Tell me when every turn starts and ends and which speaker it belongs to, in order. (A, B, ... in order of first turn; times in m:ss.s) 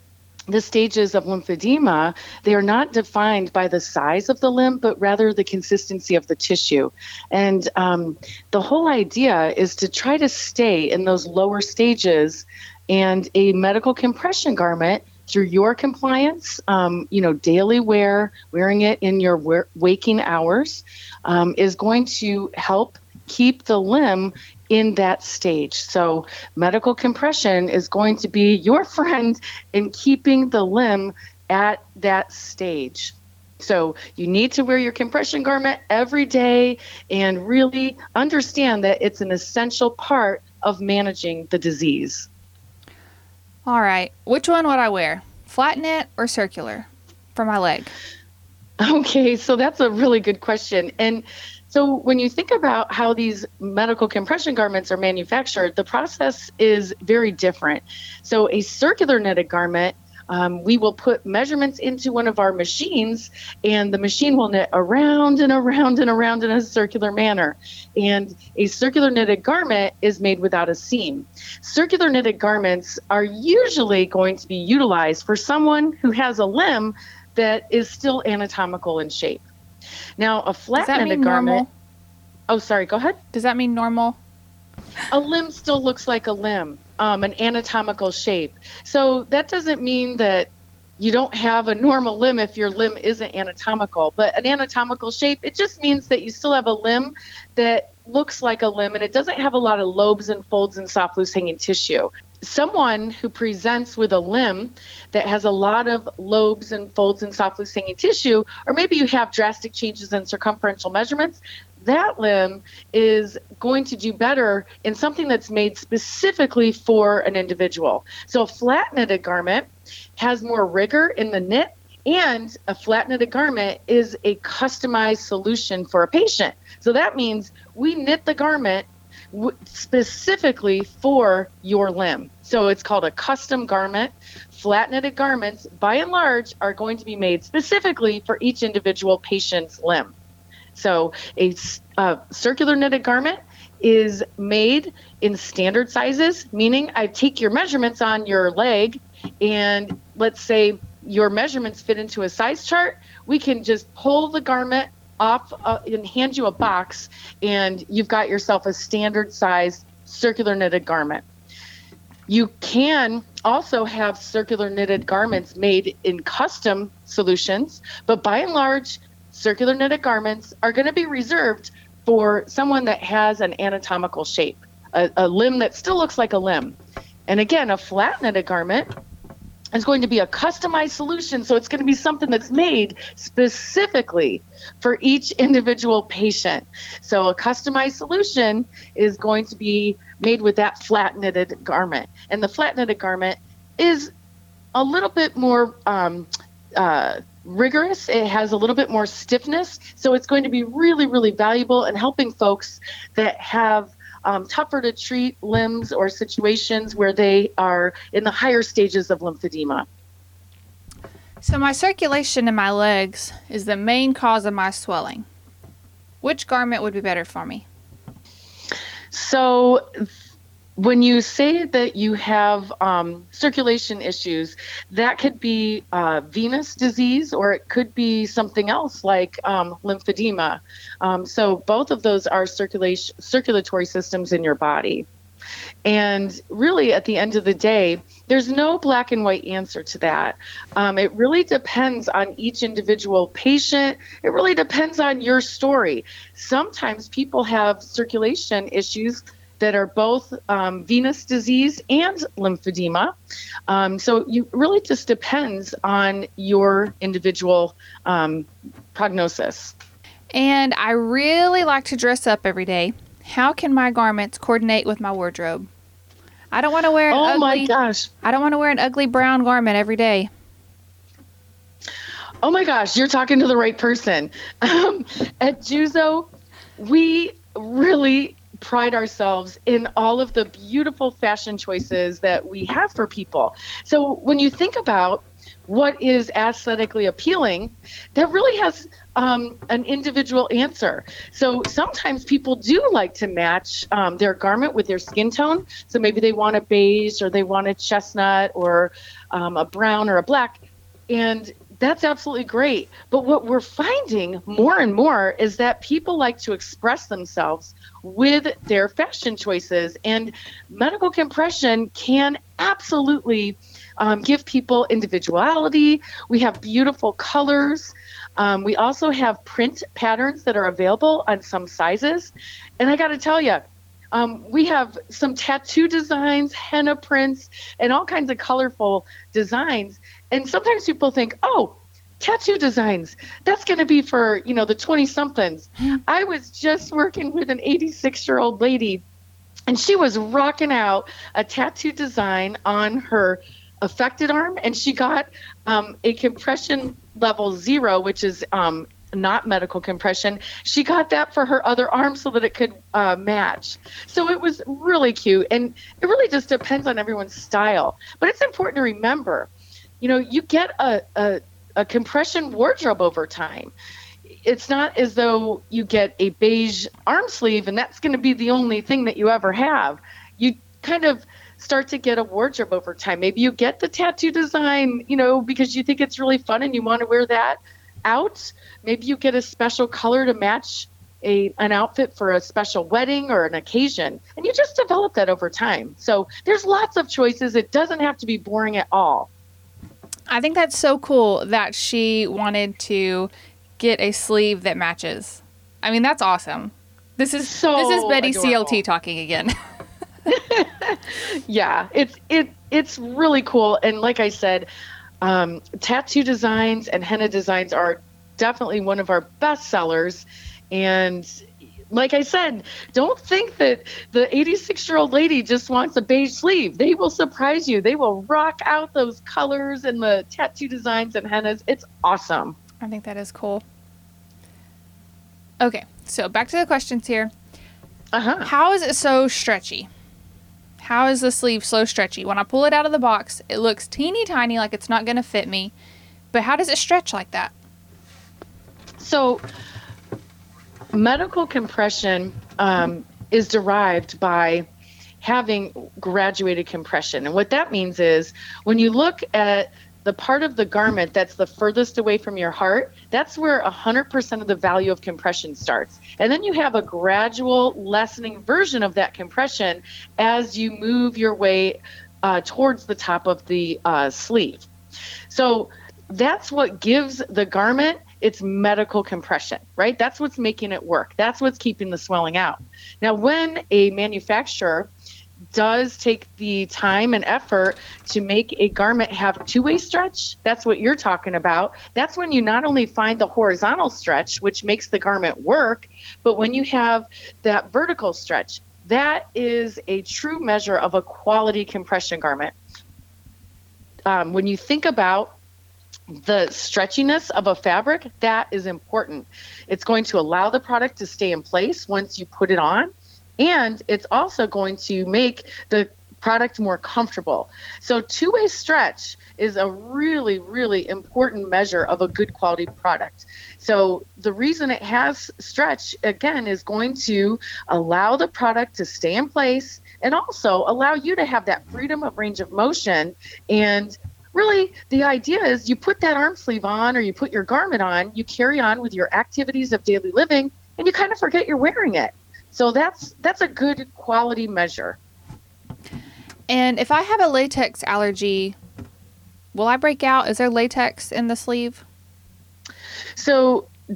0:00.5-0:42.3 A
0:43.7-0:47.9 B
0:48.8-1:19.4 A
1:20.2-1:21.7 A
1:20.8-1:21.7 B
1:22.5-1:23.2 A
1:23.3-1:24.2 B
1:25.1-2:20.1 A
2:20.7-2:41.2 A
2:42.3-2:56.8 A
2:57.3-2:58.9 A
2:59.7-3:14.1 A
3:14.7-3:29.9 A
3:31.4-3:35.3 B
3:36.2-3:37.6 B
3:39.1-3:40.1 A
3:40.8-3:55.1 A
3:55.8-4:13.1 A
4:13.7-4:19.7 A
4:20.3-4:25.7 B
4:26.5-4:27.7 B
4:27.1-4:28.1 A
4:28.2-4:30.3 B
4:32.4-5:39.0 A
5:39.7-5:59.5 A
6:00.0-6:03.7 A
6:04.3-6:29.3 A
6:30.3-6:39.6 B
6:37.4-6:38.8 A
6:40.3-6:44.7 A
6:45.2-7:02.6 A
7:02.8-7:03.6 B
7:05.6-7:07.3 B
7:08.1-7:08.5 A
7:08.4-7:09.9 B
7:10.8-7:15.7 B
7:16.3-7:17.5 B
7:19.0-7:19.4 A
7:20.9-7:24.7 A
7:25.2-7:44.7 A
7:45.3-7:54.9 A
7:55.5-8:12.5 A
8:14.1-8:15.3 A
8:16.1-8:55.0 A
8:56.5-8:58.6 B
8:59.5-9:01.8 B
9:03.2-9:03.7 A